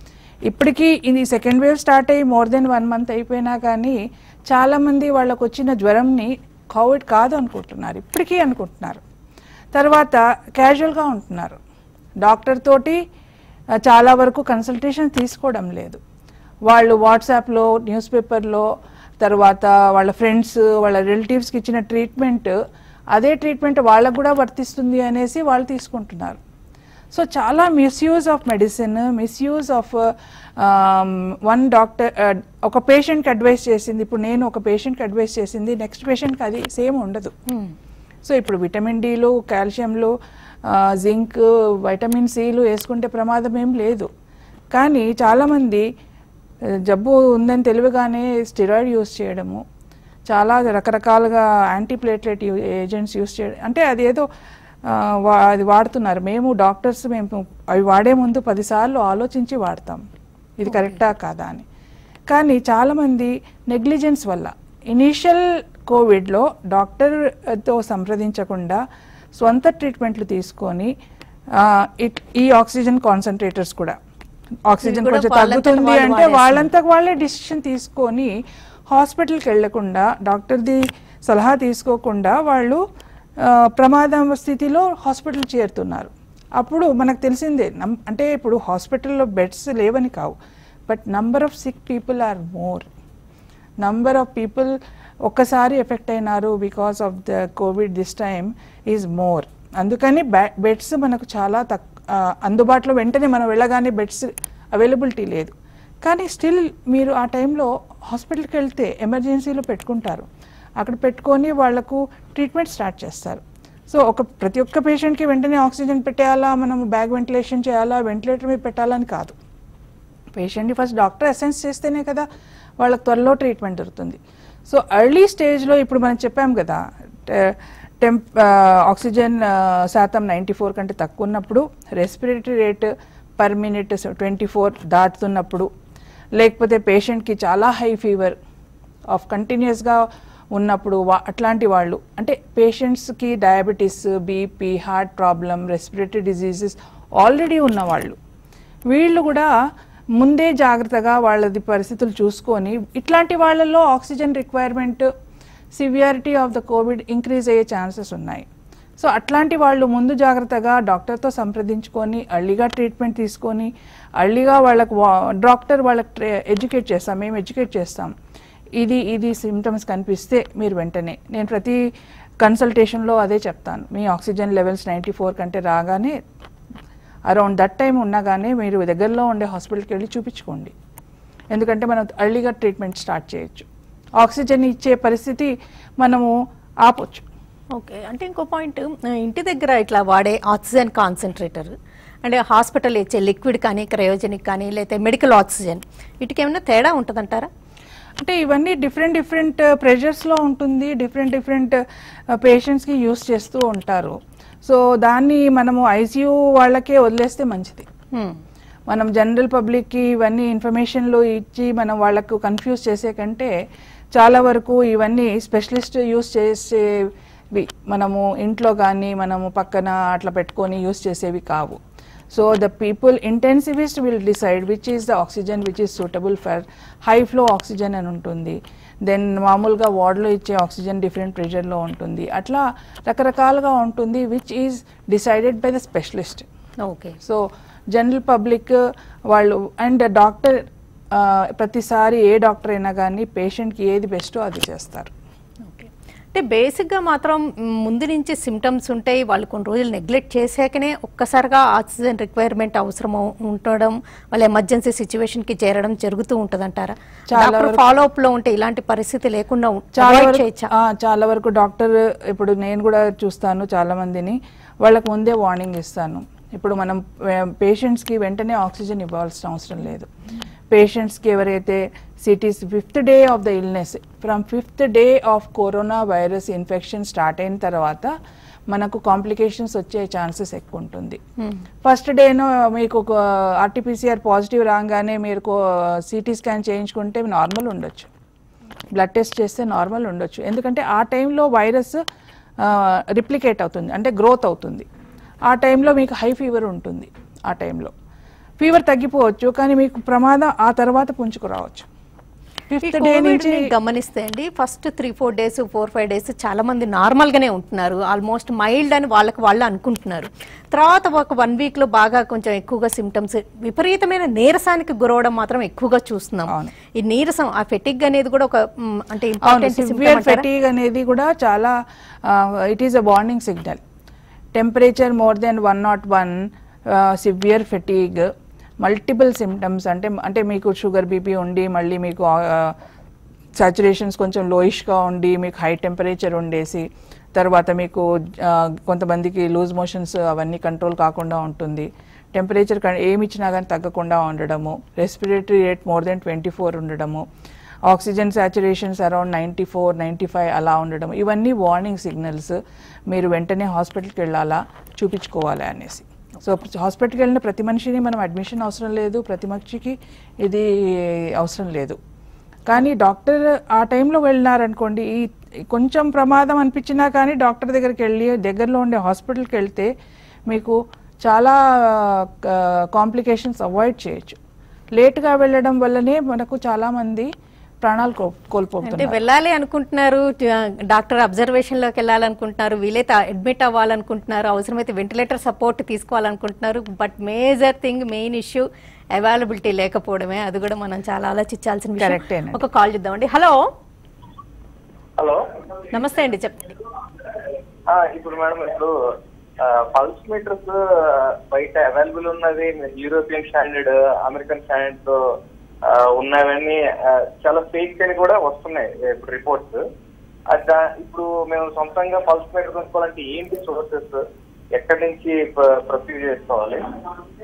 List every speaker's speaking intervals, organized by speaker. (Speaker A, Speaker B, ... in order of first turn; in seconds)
Speaker A: 0.5-4.0, 4.5-9.0, 9.7-11.6, 12.2-13.0, 13.8-16.0, 16.7-18.7, 19.2-22.6, 23.1-26.4, 27.1-37.3, 38.2-40.1, 40.6-44.1, 44.7-45.9, 46.9-49.6, 50.3-54.2, 54.9-60.0, 60.6-61.6, 62.3-68.8, 69.3-70.9, 71.5-74.0, 74.7-78.3, 78.9-82.8, 83.4-90.3, 90.9-92.9, 93.8-94.7, 95.3-110.3, 110.8-119.4, 120.4-122.3, 122.8-135.7, 136.4-138.4, 139.1-148.2, 148.9-149.5, 150.2-155.1, 155.7-158.5, 159.0-168.1, 168.8-171.8, 172.4-176.2, 177.3-180.7, 181.5-183.7, 184.2-187.3, 198.2-201.8, 202.3-207.9, 208.9-213.5, 214.2-216.9, 217.5-221.8, 222.3-236.5, 237.2-245.1, 257.3-257.8, 260.0-270.1, 270.7-278.1, 278.7-281.2, 281.8-288.1, 289.0-292.0, 292.6-294.9, 295.5-297.9, 298.6-301.9, 302.7-303.6, 319.4-323.8, 324.6-332.8, 333.6-347.2, 347.9-362.0, 362.7-369.9, 370.5-374.4, 374.9-377.3, 377.8-379.2, 392.0-392.6
Speaker B: 74.8-76.7, 187.8-191.7, 192.2-197.5, 236.8-237.2, 245.6-260.7, 302.8-320.5, 378.8-393.6, 395.9-396.8
Speaker C: 395.2-395.4, 397.9-398.9, 399.6-405.3, 405.9-409.8, 410.5-414.2, 414.7-416.9